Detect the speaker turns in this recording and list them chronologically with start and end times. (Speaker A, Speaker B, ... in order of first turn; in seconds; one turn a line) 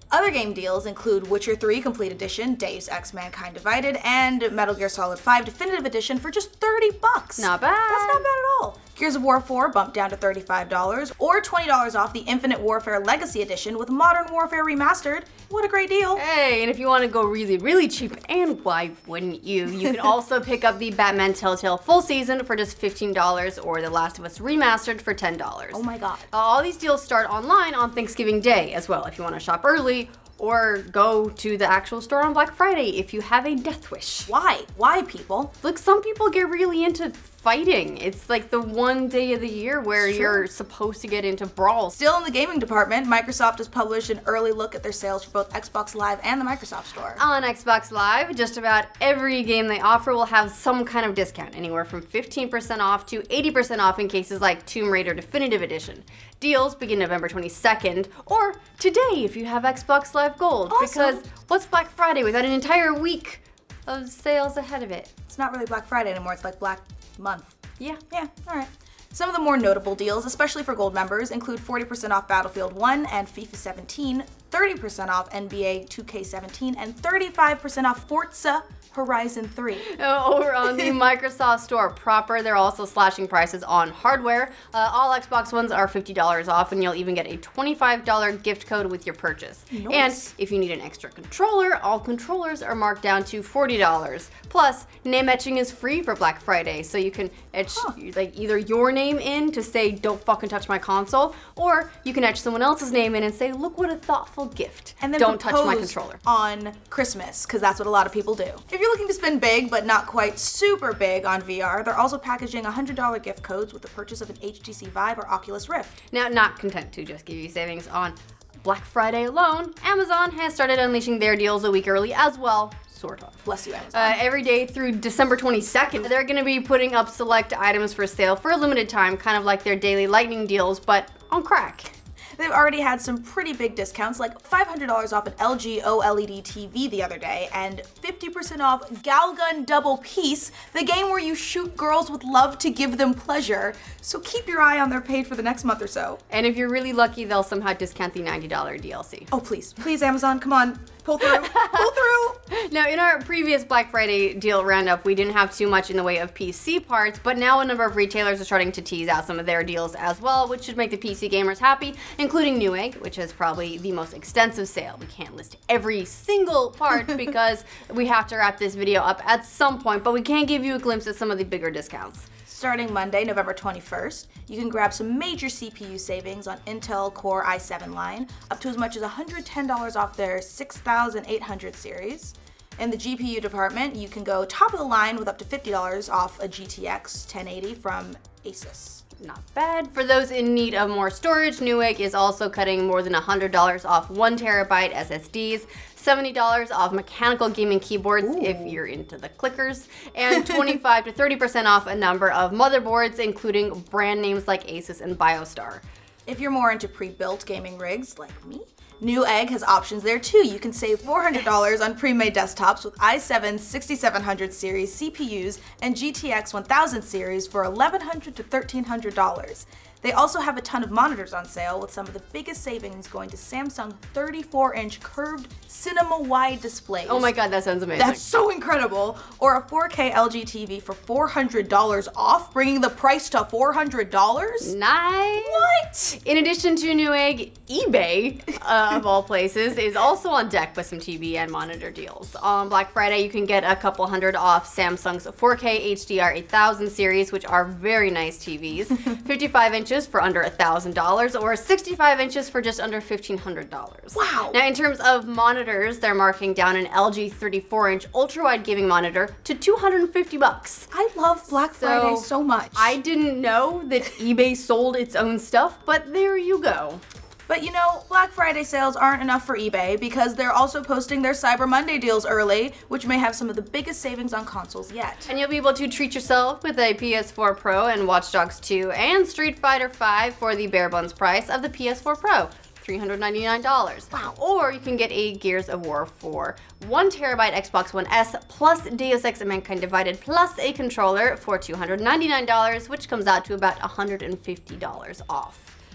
Speaker A: 0.1-16.2
Speaker B: 7.4-8.3
Speaker B: 16.2-34.3
Speaker A: 25.7-26.3
Speaker A: 34.3-35.5
Speaker B: 35.6-42.0
Speaker A: 40.0-40.5
Speaker A: 41.9-47.2
Speaker B: 47.2-65.1
Speaker A: 60.7-61.2
Speaker A: 65.3-67.6
Speaker A: 68.1-79.9
Speaker B: 79.8-106.2
Speaker A: 89.7-90.3
Speaker A: 105.0-116.0
Speaker B: 116.1-123.4
Speaker A: 123.5-124.2
Speaker B: 123.9-131.9
Speaker A: 132.4-146.2
Speaker B: 146.3-149.3
Speaker A: 149.3-152.4
Speaker B: 151.2-151.9
Speaker B: 152.5-172.3
Speaker A: 172.5-189.0
Speaker B: 189.2-205.8
Speaker A: 198.2-198.8
Speaker A: 200.4-200.8
Speaker A: 206.3-227.3
Speaker B: 227.1-228.2
Speaker A: 228.0-234.7
Speaker B: 234.6-260.9
Speaker A: 235.4-236.2
Speaker A: 254.1-254.6
Speaker A: 260.9-263.0
Speaker B: 261.7-267.0
Speaker A: 267.5-275.3
Speaker B: 275.3-295.7